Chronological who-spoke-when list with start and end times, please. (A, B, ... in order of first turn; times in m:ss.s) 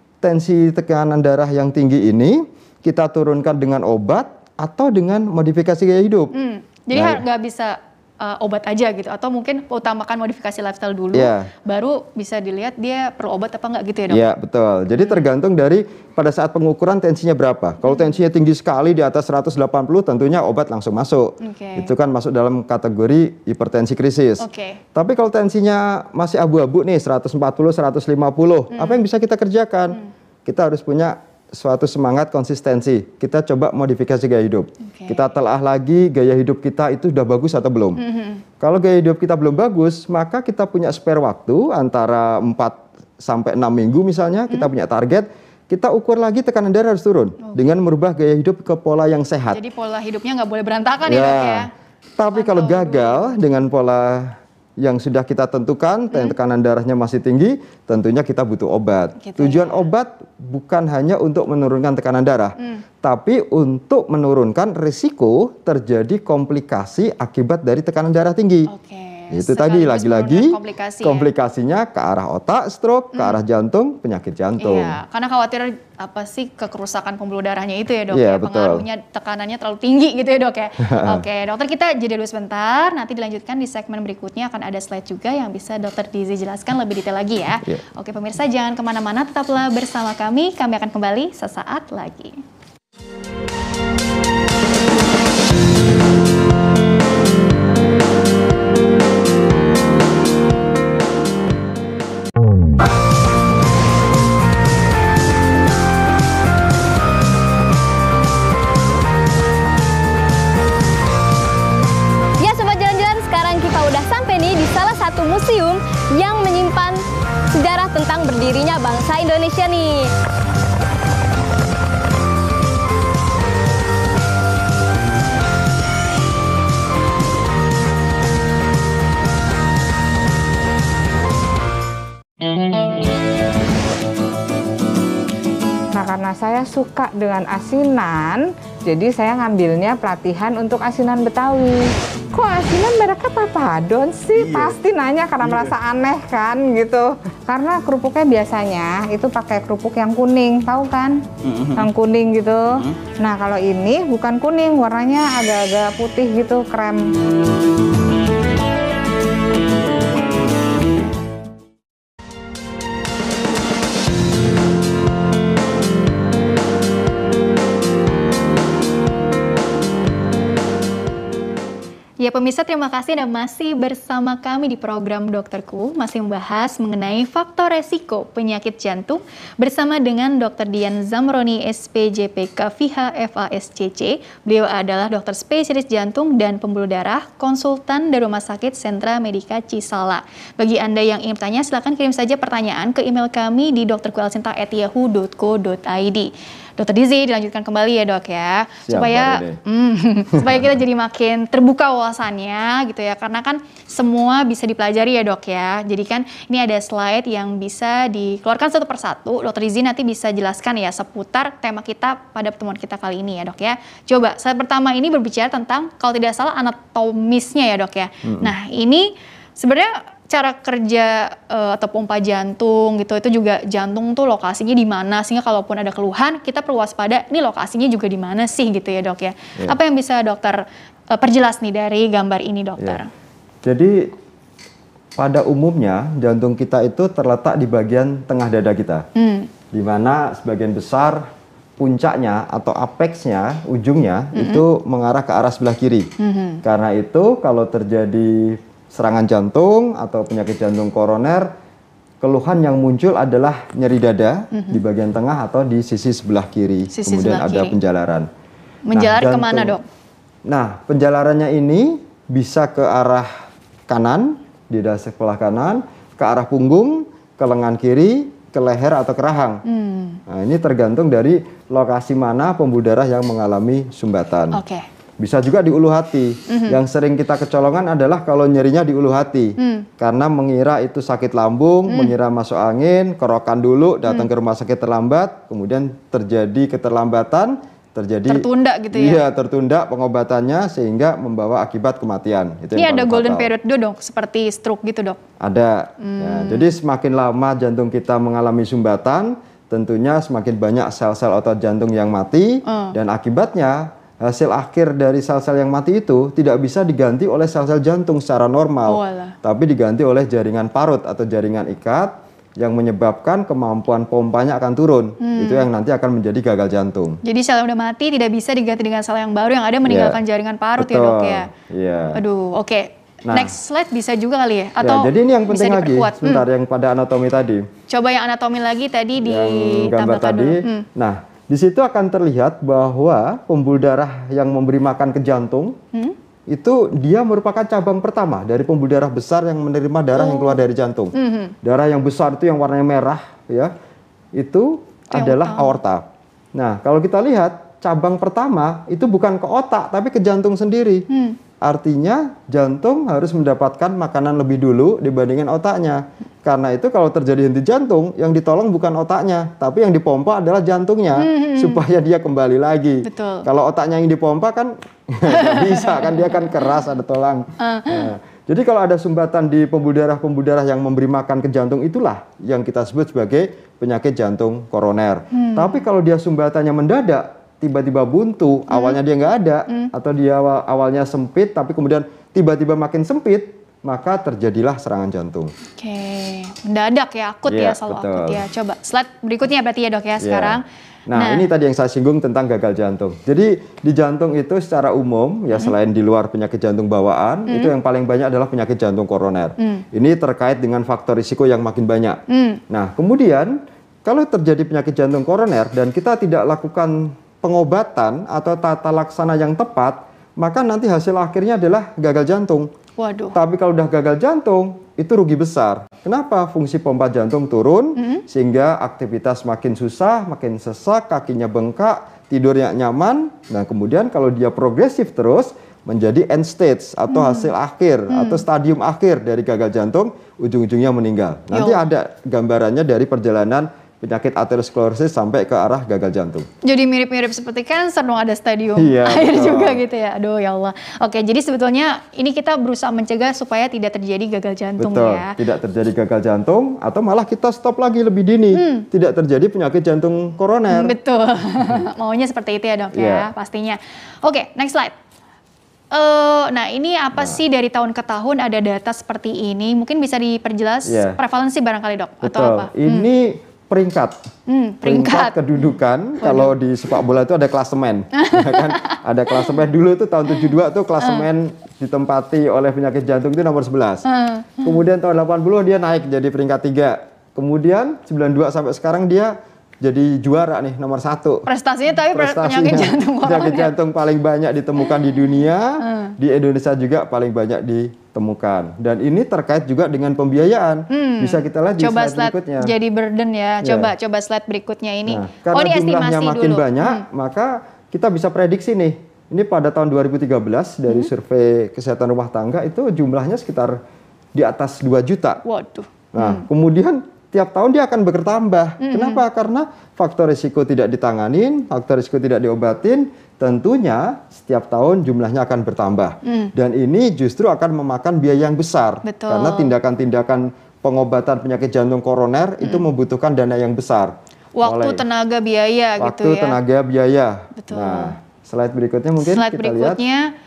0:00.2-0:06.3 A
0:06.3-0:14.3 B
0:06.9-0:07.2 A
0:11.1-0:11.5 A
0:14.1-0:38.0 A
0:17.8-0:18.1 B
0:21.4-0:21.9 B
0:24.4-0:24.8 B
0:28.7-0:29.0 B
0:34.8-0:35.2 B
0:38.0-0:38.4 B
0:38.6-0:49.6 A
0:49.5-0:51.7 B
0:51.0-1:08.7 A
0:52.3-0:53.4 B
0:59.2-0:59.8 B
1:08.7-1:11.3 B
1:09.3-1:15.0 A
1:14.6-1:32.4 B
1:18.1-1:18.8 A
1:20.8-1:21.2 A
1:52.4-1:57.0 C
1:57.5-2:00.1 C
2:15.9-2:37.1 D
2:52.2-3:53.1 B
3:18.9-3:19.6 A
3:20.4-3:20.6 A
3:38.2-3:38.5 A
3:53.6-3:54.1 A
3:55.2-3:59.1 A
3:59.2-3:59.5 B
3:59.7-4:06.1 A
4:04.3-4:04.6 B
4:06.2-4:06.6 B
4:06.6-4:11.5 A
4:12.2-4:18.3 A
4:14.5-4:14.8 B
4:16.9-4:17.8 B
4:18.9-4:19.8 B
4:18.9-4:19.8 A
4:20.5-4:23.3 A
4:23.9-4:29.6 A
4:29.7-4:30.2 B
4:30.3-4:34.6 A
4:34.5-4:34.8 B
4:35.2-4:53.5 A
4:36.5-4:36.8 B
4:39.6-4:39.9 B
4:41.9-4:42.1 B
4:48.3-4:49.2 B
4:52.8-4:55.2 B
4:55.4-5:17.2 A
4:56.0-4:56.7 B
5:02.7-5:02.9 B
5:08.9-5:09.4 B
5:15.2-5:15.7 B
5:17.2-5:21.5 B
5:19.8-5:20.2 A
5:20.8-5:22.2 A
5:22.1-5:26.4 B
5:23.3-5:23.5 A
5:24.8-5:27.7 A
5:27.9-5:30.9 B
5:29.2-5:35.8 A
5:36.5-5:43.7 A
5:40.1-5:40.6 B
5:41.2-5:41.5 B
5:44.4-5:51.1 A
5:45.1-5:45.8 B
5:51.1-5:51.4 B
5:51.6-6:25.5 A
6:01.2-6:01.8 B
6:03.0-6:03.5 B
6:05.3-6:06.4 B
6:07.6-6:08.1 B
6:15.3-6:15.8 B
6:18.7-6:19.0 B
6:25.8-6:30.6 B
6:27.5-6:28.4 A
6:30.2-6:52.7 A
6:31.2-6:31.5 B
6:42.3-6:42.6 B
6:53.0-6:53.4 B
6:53.3-7:16.5 A
6:58.0-6:58.2 B
7:07.1-7:07.5 B
7:08.1-7:08.4 B
7:11.5-7:11.8 B
7:16.6-7:25.4 B
7:18.8-7:19.8 A
7:24.8-7:31.0 A
7:28.5-7:28.9 B
7:30.7-7:34.9 B
7:32.9-7:33.3 A
7:35.9-7:43.1 B
7:40.9-7:41.2 A
7:42.2-7:44.2 A
7:44.5-7:46.5 B
7:44.8-7:54.0 A
7:48.2-7:49.5 B
7:54.0-7:54.8 B
7:54.6-8:01.5 A
8:01.5-8:03.7 B
8:02.1-8:12.7 A
8:05.8-8:06.2 B
8:10.9-8:17.0 B
8:13.6-8:13.9 A
8:15.1-8:23.8 A
8:24.4-8:25.4 A
8:25.4-8:26.5 B
8:26.1-8:45.0 A
8:28.8-8:29.2 B
8:36.2-8:36.5 B
8:39.1-8:39.7 B
8:44.6-8:46.6 B
8:46.0-8:50.0 A
8:47.6-8:48.1 B
8:49.2-8:50.3 B